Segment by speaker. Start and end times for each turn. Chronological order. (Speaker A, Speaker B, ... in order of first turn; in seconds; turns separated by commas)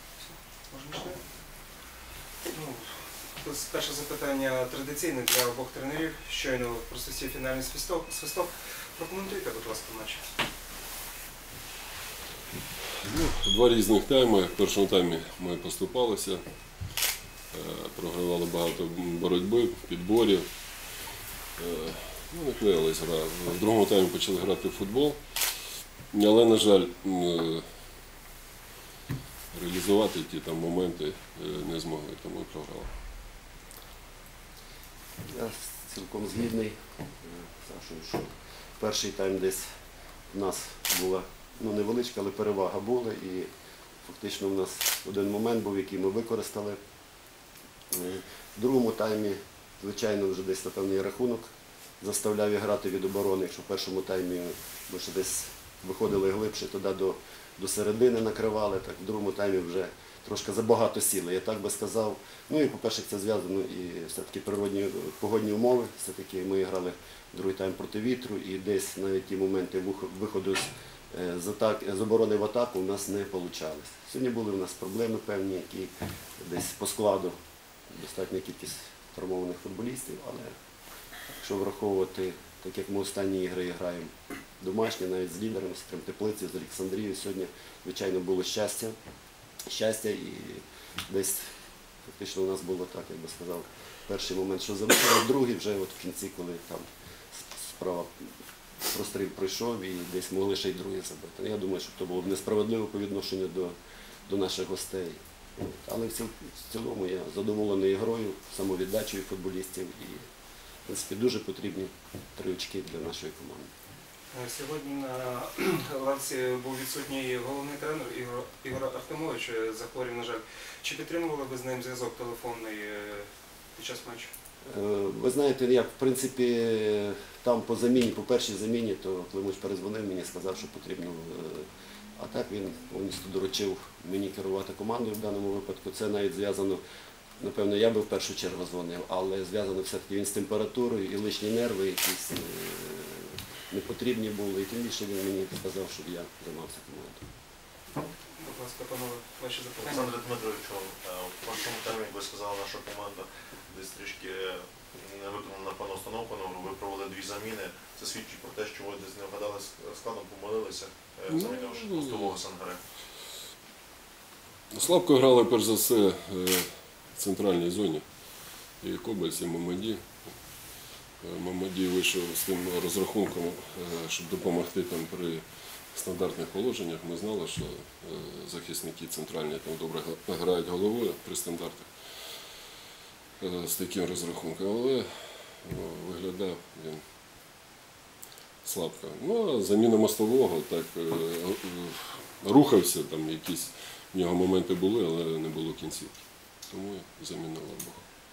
Speaker A: 0.1-1.2, Speaker A: 2.4-10.3, Speaker B: 13.0-16.4, Speaker B: 17.5-20.5, Speaker B: 21.6-25.2, Speaker B: 26.1-27.6, Speaker B: 29.5-32.9, Speaker C: 35.3-39.7, Speaker C: 40.3-43.5, Speaker C: 44.0-46.8, Speaker C: 47.9-77.4, Speaker C: 77.9-80.6, Speaker C: 81.3-88.9, Speaker C: 89.7-91.5, Speaker C: 92.1-110.2, Speaker C: 110.8-113.7, Speaker A: 114.3-124.3, Speaker C: 124.7-136.8, Speaker C: 137.4-147.2, Speaker A: 148.0-150.1, Speaker D: 149.8-162.8, Speaker B: 161.3-162.4, Speaker B: 164.7-168.0, Speaker B: 168.8-170.1, Speaker B: 171.2-181.9, Speaker B: 183.4-187.0, Speaker B: 188.6-198.0